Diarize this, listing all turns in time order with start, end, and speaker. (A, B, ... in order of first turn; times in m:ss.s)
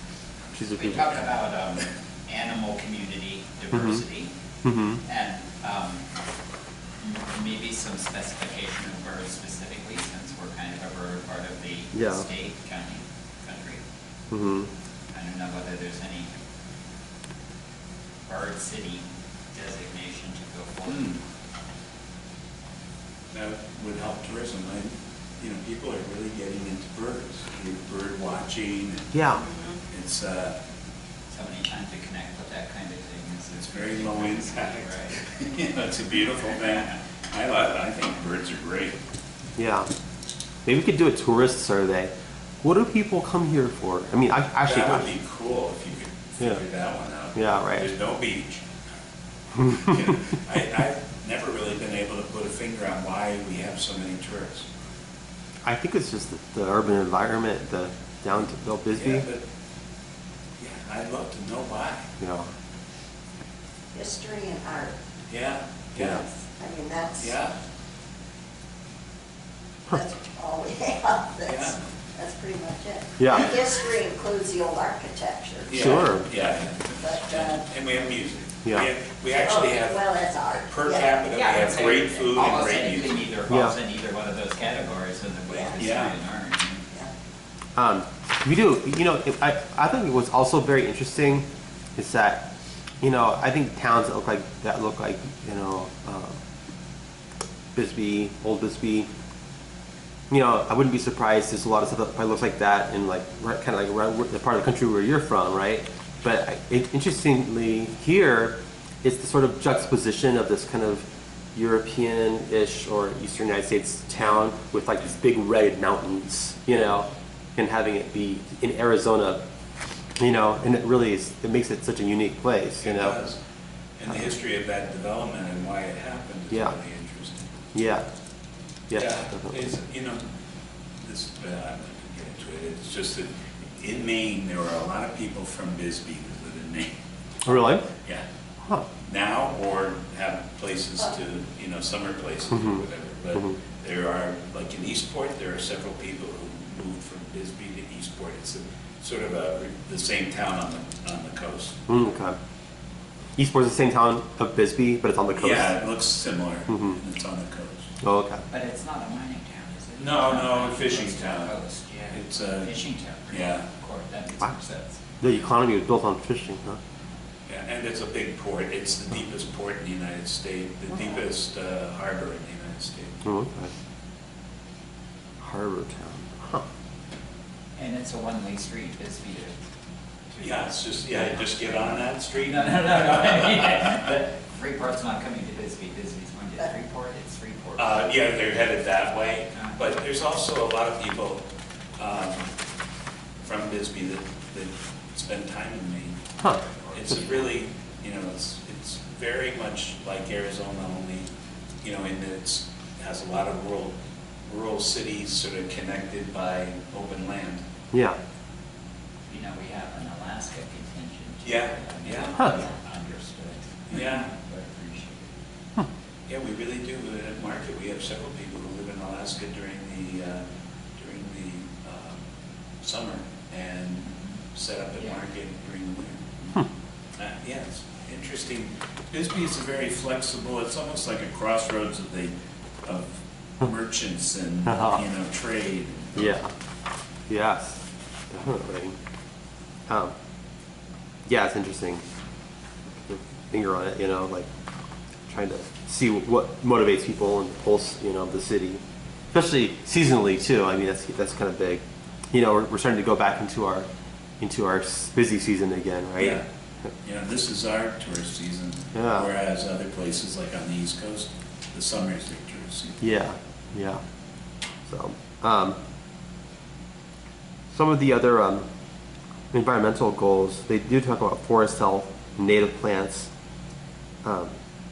0:00.5-0:01.0 A
0:00.8-0:04.3 B
0:03.7-0:04.0 A
0:04.6-0:05.0 A
0:05.1-0:06.0 B
0:07.0-0:13.8 B
0:11.9-0:12.3 A
0:14.3-0:14.7 A
0:15.1-0:16.3 B
0:18.3-0:21.1 B
0:20.9-0:21.2 C
0:23.3-0:30.6 C
0:29.1-0:29.4 A
0:31.3-0:35.2 B
0:33.6-0:39.0 C
0:39.6-0:39.9 A
0:40.7-0:42.1 A
0:42.6-0:45.1 A
0:44.6-0:48.6 C
0:47.4-0:47.9 A
0:49.6-0:50.0 A
0:49.6-0:54.7 C
0:55.6-0:59.3 A
0:58.9-0:59.4 C
1:00.6-1:02.1 C
1:02.2-1:02.5 A
1:03.9-1:05.0 D
1:05.3-1:06.3 C
1:06.0-1:06.2 A
1:06.5-1:07.3 D
1:07.2-1:07.6 C
1:09.9-1:16.1 D
1:11.4-1:11.8 C
1:13.2-1:13.5 A
1:15.7-1:23.3 C
1:15.7-1:16.3 A
1:16.9-1:17.6 D
1:19.3-1:21.2 D
1:21.3-1:26.8 B
1:23.5-1:23.8 A
1:25.8-1:26.2 C
1:27.8-1:32.5 A
1:33.0-1:36.4 A
1:37.8-1:39.1 A
1:40.3-1:59.4 A
2:00.2-2:03.2 A
2:02.8-2:03.4 C
2:04.0-2:07.5 C
2:07.8-2:08.1 A
2:08.9-2:09.6 A
2:08.9-2:10.2 C
2:11.0-2:16.9 C
2:17.4-2:17.9 A
2:18.0-2:18.2 C
2:18.6-2:18.9 A
2:19.0-2:31.8 C
2:22.5-2:22.8 A
2:31.9-2:32.4 A
2:33.4-2:35.7 A
2:35.4-2:37.9 C
2:36.7-2:37.0 A
2:38.0-2:38.4 A
2:38.5-2:45.0 B
2:40.0-2:41.5 C
2:42.1-2:42.8 C
2:43.3-2:43.7 C
2:45.2-2:46.8 A
2:47.5-2:53.2 C
2:53.2-2:53.7 A
2:55.4-2:56.6 A
2:57.8-2:59.6 B
3:00.3-3:01.8 B
3:00.4-3:04.1 C
3:02.4-3:08.1 B
3:07.8-3:12.5 C
3:09.5-3:09.8 B
3:13.4-3:16.2 C
3:16.9-3:21.3 C
3:21.8-3:27.6 C
3:27.9-3:28.2 A
3:29.3-3:35.3 B
3:31.4-3:32.6 C
3:32.4-3:32.6 A
3:33.9-3:34.3 C
3:36.3-3:40.4 C
3:41.0-3:42.2 C
3:42.8-3:46.6 C
3:47.2-3:52.3 C
3:52.8-3:56.4 C
3:54.7-3:55.0 A
3:56.2-3:56.5 A
3:57.3-3:59.0 A
3:59.9-4:00.1 A
4:01.3-4:02.0 A
4:02.9-4:04.5 A
4:05.3-4:08.8 A
4:09.3-4:13.9 A
4:14.4-4:16.4 A
4:16.2-4:16.4 C
4:17.0-4:23.1 C
4:19.0-4:19.3 A
4:23.0-4:24.0 A
4:24.9-4:25.8 A
4:27.7-4:28.7 A
4:29.5-4:33.3 A
4:34.2-4:34.5 A